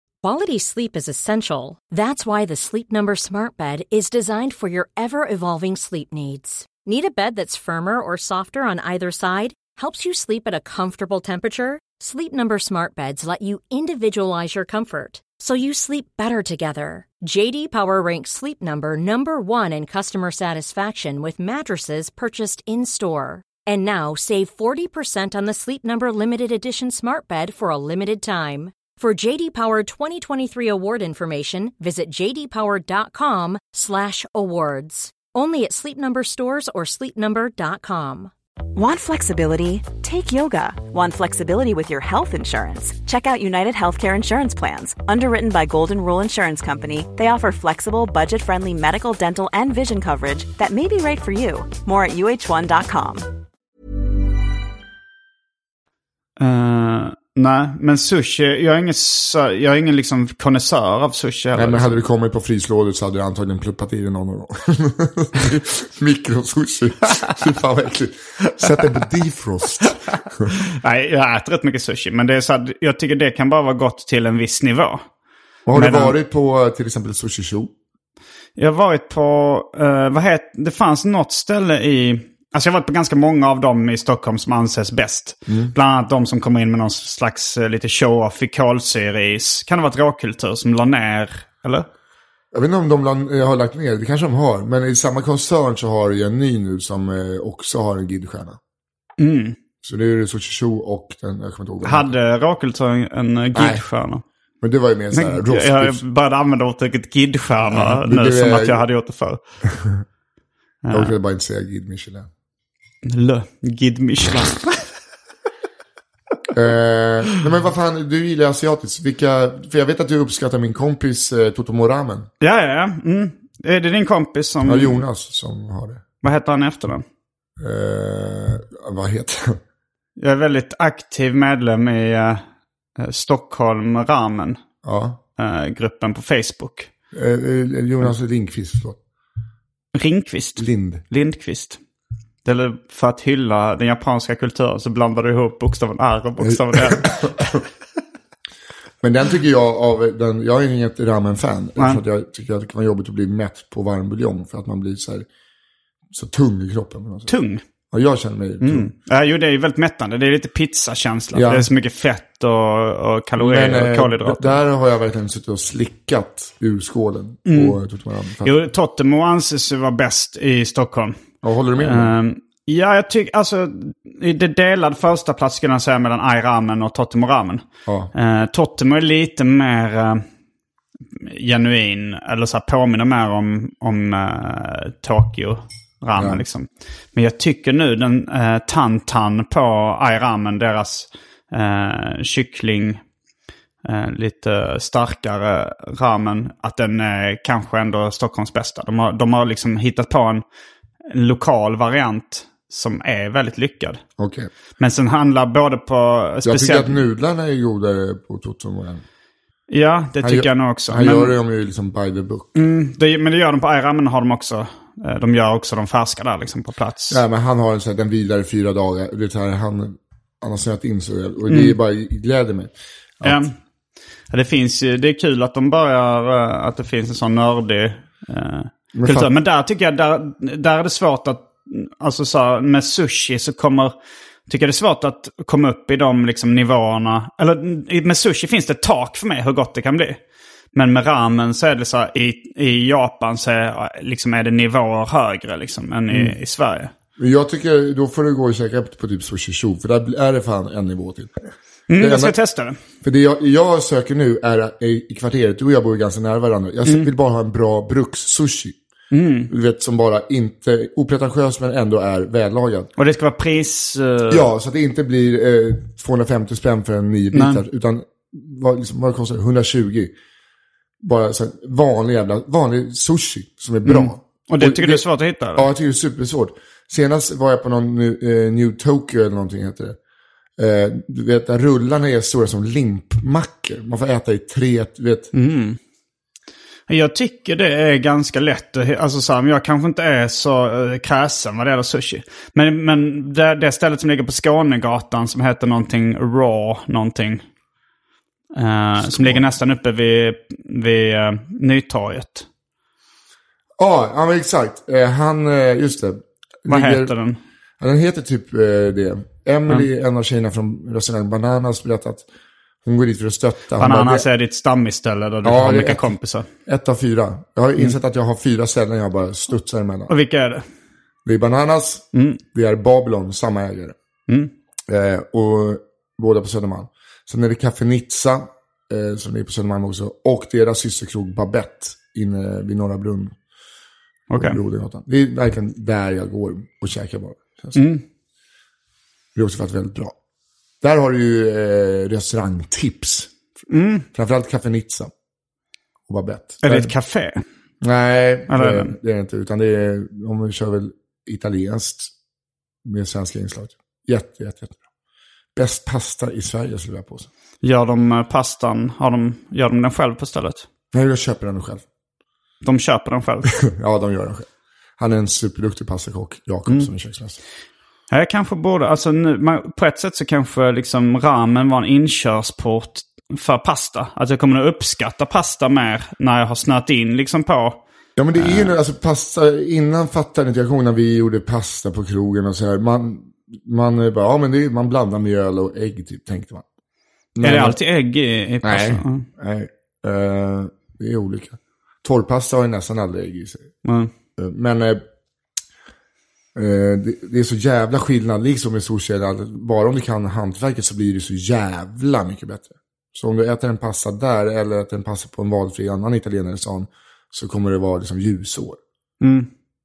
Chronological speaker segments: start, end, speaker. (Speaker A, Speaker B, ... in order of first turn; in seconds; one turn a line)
Speaker A: 0.2-38.3
Speaker B: 38.8-53.3
Speaker C: 56.4-62.0
Speaker D: 61.5-70.5
Speaker C: 70.7-75.0
Speaker D: 75.7-77.7
Speaker C: 75.8-76.2
Speaker C: 78.6-91.9
Speaker D: 85.5-85.7
Speaker D: 92.5-98.6
Speaker C: 99.2-99.6
Speaker D: 99.8-102.1
Speaker C: 101.8-104.2
Speaker D: 103.5-103.8
Speaker D: 104.6-106.0
Speaker C: 105.1-109.4
Speaker D: 107.7-108.8
Speaker D: 109.7-110.0
Speaker C: 110.8-111.2
Speaker D: 110.9-112.3
Speaker C: 113.0-114.9
Speaker D: 116.5-122.3
Speaker C: 122.4-125.0
Speaker D: 124.7-126.0
Speaker C: 126.2-127.0
Speaker D: 127.6-129.6
Speaker C: 130.2-132.4
Speaker C: 133.0-134.6
Speaker D: 134.8-135.2
Speaker C: 135.4-136.9
Speaker D: 137.1-139.0
Speaker C: 139.9-141.8
Speaker D: 140.6-141.0
Speaker C: 142.4-147.2
Speaker D: 146.4-147.6
Speaker D: 149.0-155.3
Speaker D: 156.1-157.3
Speaker C: 157.3-157.6
Speaker D: 157.9-158.9
Speaker C: 158.6-164.6
Speaker D: 161.3-161.7
Speaker D: 163.4-168.6
Speaker C: 167.5-167.8
Speaker C: 168.4-171.2
Speaker D: 171.4-172.1
Speaker C: 171.8-180.2
Speaker D: 177.9-178.1
Speaker C: 181.2-193.0
Speaker D: 186.2-186.4
Speaker C: 193.8-200.4
Speaker C: 201.1-204.0
Speaker D: 204.2-204.5
Speaker C: 204.8-207.0
Speaker D: 206.4-209.0
Speaker C: 209.7-211.3
Speaker D: 210.2-212.6
Speaker C: 212.6-217.2
Speaker D: 217.1-223.5
Speaker C: 221.5-221.8
Speaker C: 223.2-223.5
Speaker C: 224.3-233.9
Speaker D: 228.9-229.3
Speaker C: 234.5-240.2
Speaker C: 240.7-246.9
Speaker D: 246.1-246.3
Speaker D: 247.2-252.4
Speaker C: 251.9-252.8
Speaker D: 253.0-258.8
Speaker C: 256.9-257.1
Speaker C: 259.1-259.5
Speaker D: 259.5-262.9
Speaker C: 263.0-264.5
Speaker D: 264.3-270.1
Speaker C: 267.3-267.6
Speaker D: 271.0-280.0
Speaker C: 273.9-275.7
Speaker D: 280.6-285.3
Speaker C: 285.3-285.8
Speaker C: 286.9-297.4
Speaker C: 298.6-302.5
Speaker D: 299.0-299.4
Speaker D: 303.8-307.1
Speaker C: 306.7-307.4
Speaker D: 307.8-312.2
Speaker D: 312.8-314.3
Speaker C: 313.8-316.5
Speaker D: 315.4-320.1
Speaker C: 320.1-320.6
Speaker D: 321.2-324.0
Speaker C: 322.1-322.4
Speaker D: 324.9-333.4
Speaker C: 334.3-334.6
Speaker D: 334.4-337.8
Speaker C: 337.8-338.0
Speaker D: 339.4-340.1
Speaker D: 340.8-343.3
Speaker C: 343.7-344.1
Speaker D: 344.1-345.1
Speaker D: 346.1-346.9
Speaker C: 346.6-347.4
Speaker D: 347.8-352.1
Speaker C: 348.5-348.9
Speaker D: 352.9-354.8
Speaker D: 355.6-357.3
Speaker C: 357.6-360.7
Speaker D: 360.9-361.9
Speaker C: 362.6-363.5
Speaker D: 363.5-367.4
Speaker C: 368.1-377.8
Speaker D: 378.2-386.6
Speaker C: 378.4-378.7
Speaker D: 387.4-387.8
Speaker C: 387.4-389.3
Speaker D: 388.6-393.7
Speaker C: 393.8-394.1
Speaker D: 394.4-395.1
Speaker D: 396.6-408.8
Speaker C: 409.2-409.5